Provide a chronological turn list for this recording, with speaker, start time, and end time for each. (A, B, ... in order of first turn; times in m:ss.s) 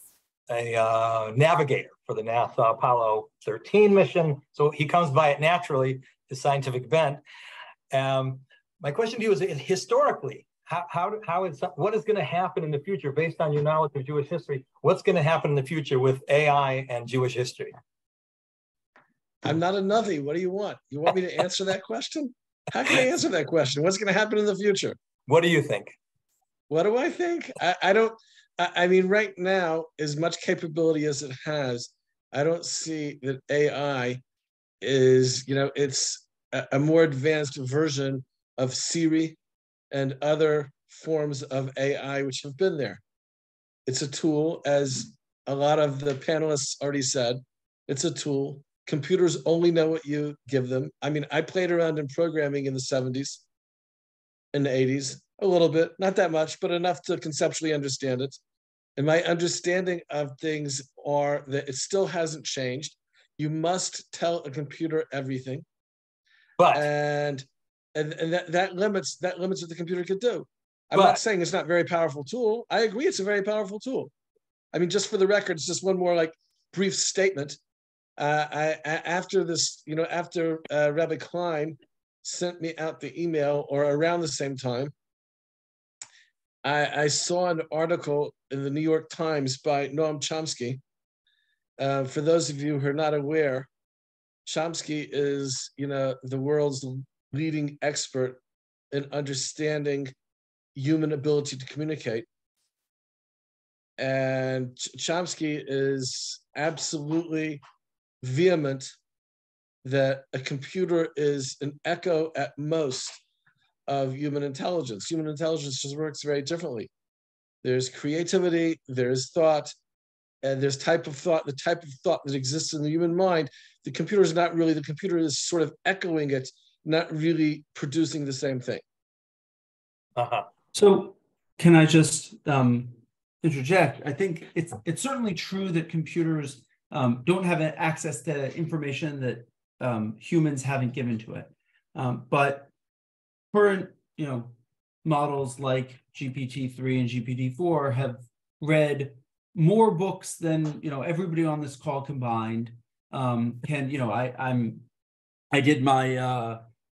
0:00.5-0:07.2 A
0:07.9-0:17.7 A
0:19.4-0:25.0 B
0:25.3-0:25.9 A
0:26.7-0:34.2 B
0:34.8-0:39.4 B
0:39.9-0:43.0 B
0:43.9-0:53.4 B
0:54.5-0:58.4 B
0:59.0-1:05.6 B
1:06.6-1:06.9 A
1:06.7-1:14.1 B
1:10.9-1:11.2 A
1:14.7-1:17.6 B
1:18.2-1:24.9 B
1:26.6-1:30.8 B
1:31.8-1:33.7 B
1:34.4-1:38.4 B
1:38.9-1:40.1 B
1:40.8-1:42.2 B
1:44.0-1:47.6 B
1:48.2-1:48.9 B
1:49.8-1:53.2 B
1:53.9-1:56.9 B
1:57.6-1:59.7 B
2:00.4-2:08.8 B
2:10.2-2:10.4 A
2:10.7-2:22.7 C
2:23.5-2:24.5 C
2:25.0-2:34.9 C
2:35.5-2:36.6 C